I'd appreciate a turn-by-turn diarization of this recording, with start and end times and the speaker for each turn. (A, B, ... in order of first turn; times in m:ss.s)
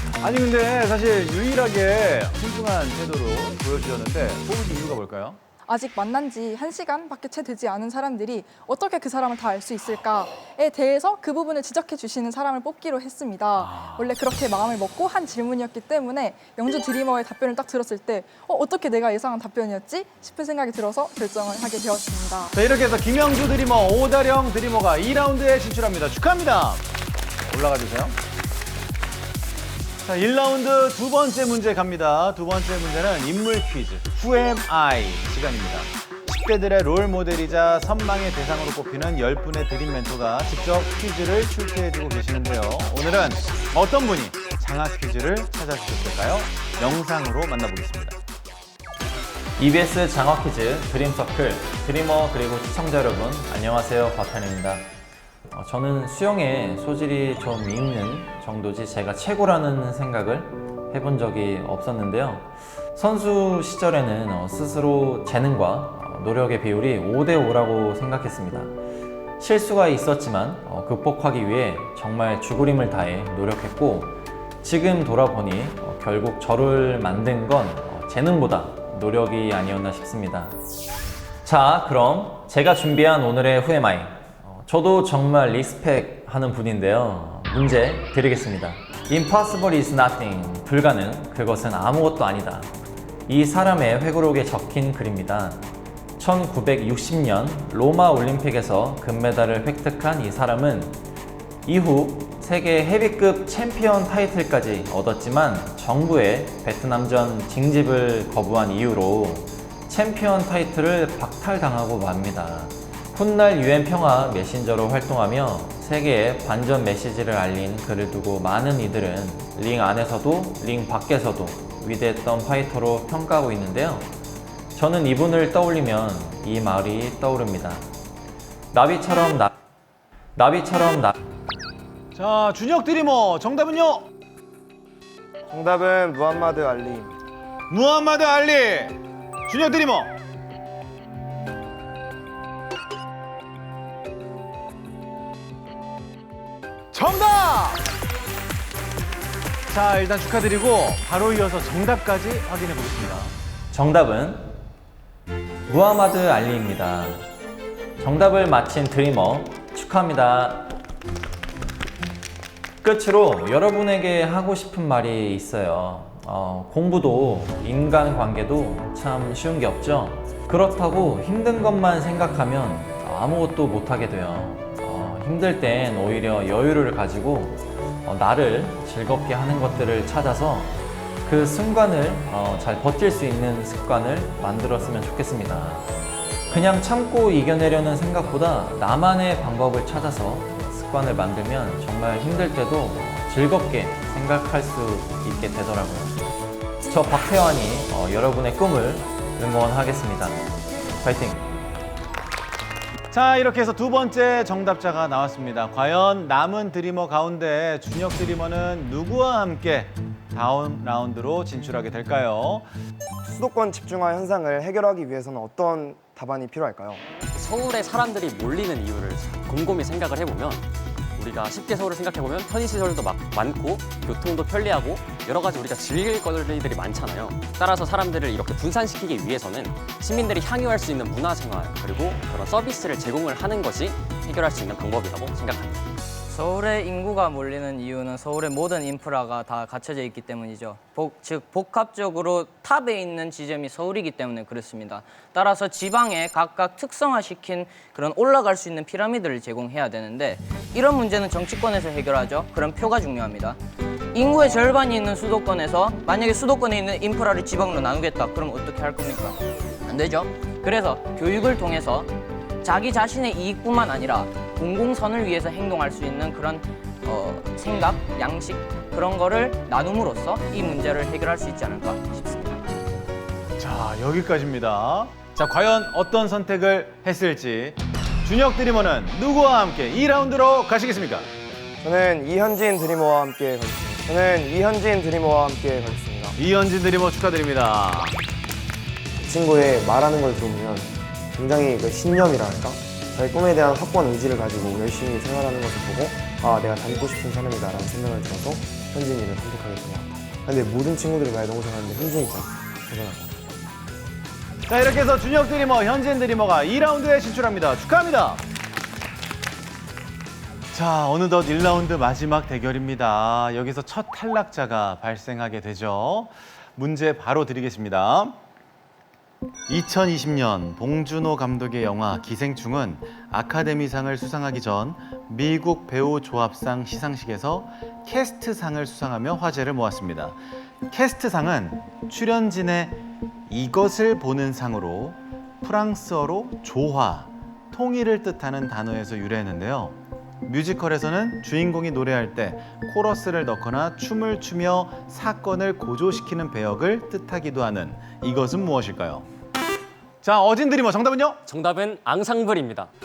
0:00.2-0:05.4 A
0:05.7-0:22.5 B
0:13.6-0:14.1 A
0:22.5-0:26.8 A
0:27.4-0:28.2 A
0:30.0-0:48.2 A
0:49.6-0:54.8 C
0:55.5-1:08.7 C
1:09.4-1:20.6 C
1:21.4-1:32.7 C
1:33.3-1:35.7 C
1:36.2-1:41.0 C
1:41.6-2:04.1 C
2:04.7-2:07.8 C
2:08.7-2:09.5 C
2:10.4-2:11.1 C
2:12.1-2:14.1 A
2:15.5-2:17.2 D
2:17.7-2:19.0 A
2:19.5-2:20.2 A
2:26.9-2:27.8 A
2:29.7-2:33.3 A
2:33.7-2:34.6 C
2:35.7-2:37.2 C
2:38.0-2:40.7 C
2:42.8-3:05.8 C
3:06.5-3:16.2 C
3:16.8-3:20.4 C
3:21.0-3:21.5 C
3:23.1-3:32.6 A
3:33.2-3:37.0 D
3:37.3-3:40.6 E
3:41.2-3:55.8 E
3:56.3-4:13.6 F
4:14.1-4:32.8 F
4:33.6-4:41.3 A
4:41.8-4:46.4 D
4:46.4-4:48.2 A
4:49.2-5:03.4 D
5:04.7-5:08.4 A
5:10.7-5:18.4 A
5:19.7-5:30.4 A
5:30.9-5:49.3 A
5:50.2-5:51.4 A
5:51.5-5:52.9 E